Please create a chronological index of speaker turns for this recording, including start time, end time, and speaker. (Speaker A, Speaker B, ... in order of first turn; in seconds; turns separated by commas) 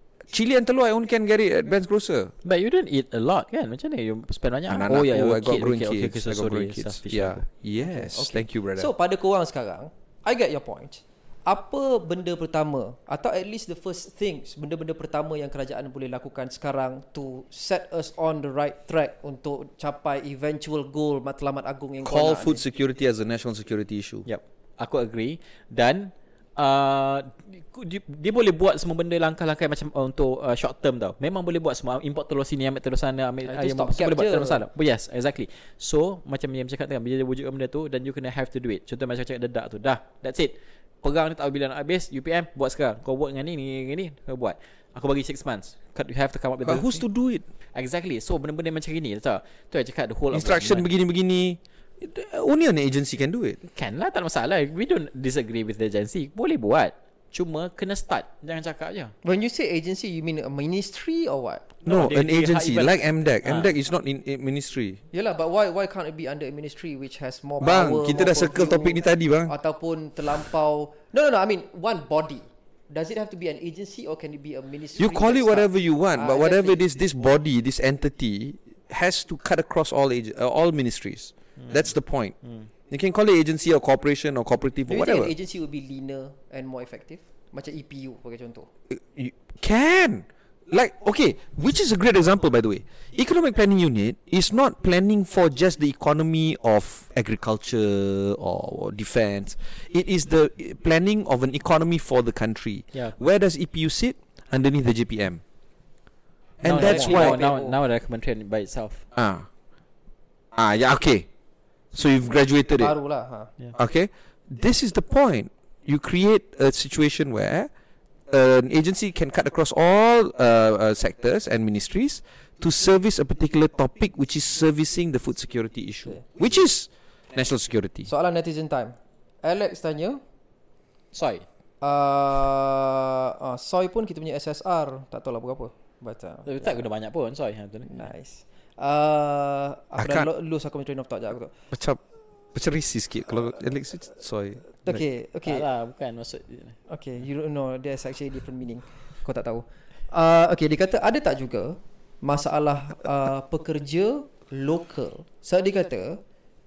Speaker A: 0.3-2.3, Speaker B: 2.4-7.4, Speaker A: 4.7-8.9, Speaker C: 7.8-22.6, Speaker A: 22.0-24.2, Speaker B: 24.3-47.0, Speaker C: 33.5-34.6, Speaker A: 46.6-47.4, Speaker B: 47.7-50.9, Speaker A: 50.3-53.6, Speaker B: 53.6-59.1, Speaker C: 59.2-61.6, Speaker B: 61.8-63.7, Speaker A: 61.8-65.0, Speaker C: 65.1-76.8, Speaker A: 67.6-69.5, Speaker A: 75.0-82.3, Speaker A: 82.9-85.3, Speaker C: 84.9-88.7, Speaker A: 88.9-105.4, Speaker A: 106.6-107.4, Speaker B: 106.6-109.0, Speaker C: 106.7-107.8, Speaker A: 109.1-109.5, Speaker A: 110.5-111.3, Speaker A: 111.9-112.9, Speaker C: 112.8-113.5, Speaker A: 113.7-117.7, Speaker A: 118.3-128.1, Speaker C: 128.1-130.2, Speaker B: 131.1-131.4, Speaker C: 131.8-136.7, Speaker B: 136.4-137.9, Speaker C: 137.9-141.5, Speaker A: 140.0-140.3, Speaker A: 141.7-142.0, Speaker A: 142.5-145.0, Speaker C: 144.8-145.6, Speaker B: 145.4-146.8, Speaker C: 146.9-156.2